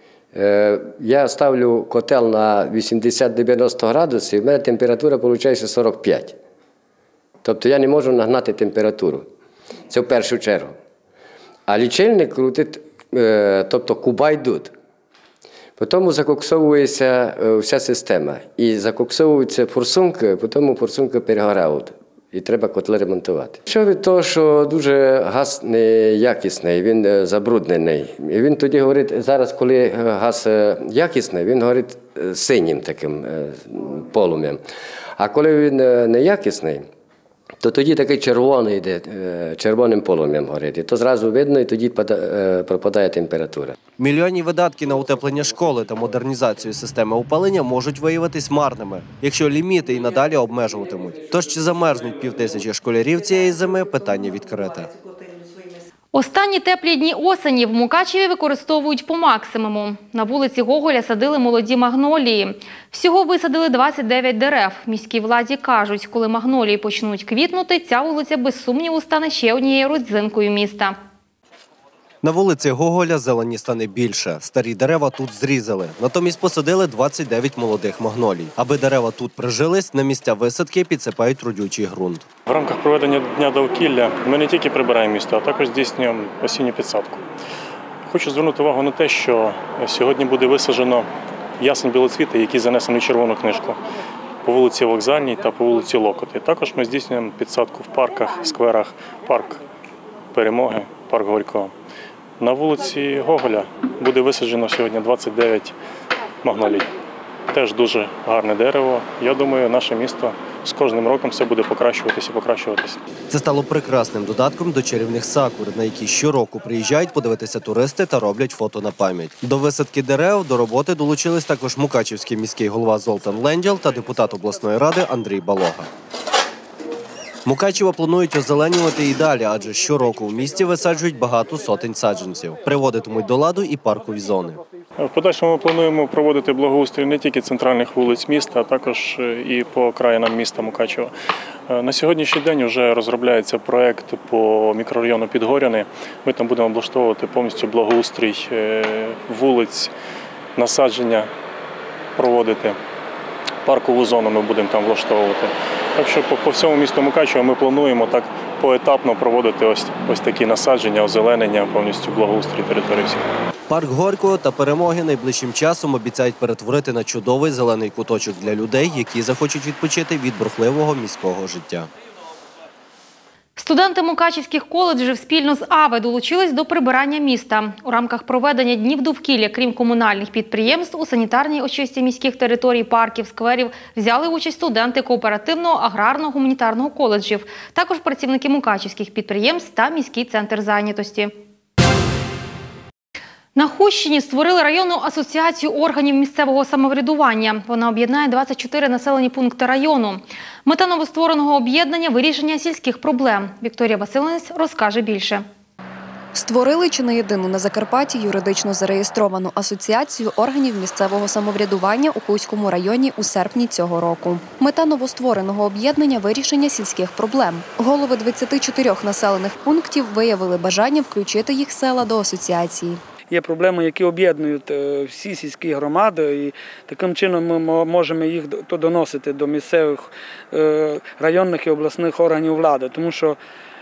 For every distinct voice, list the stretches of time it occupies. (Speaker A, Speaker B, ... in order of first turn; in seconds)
Speaker A: 0.3-6.4, 7.4-9.3, 9.9-10.8, 11.7-14.7, 15.8-34.6, 35.2-36.9, 37.6-43.7
Speaker B: 44.0-54.9, 72.2-82.3, 113.3-125.9, 127.5-134.6, 163.7-171.9
Speaker C: 56.1-71.0, 173.6-191.3, 193.6-205.4
Speaker D: 82.5-87.2, 88.1-91.1, 91.6-93.8, 94.4-99.6, 100.3-101.7, 102.4-105.8, 106.4-106.9, 107.5-113.0, 135.0-141.1, 141.7-149.9, 150.6-151.3, 152.2-152.8, 153.7-163.2
Speaker E: 206.3-223.0
Speaker F: 223.3-233.4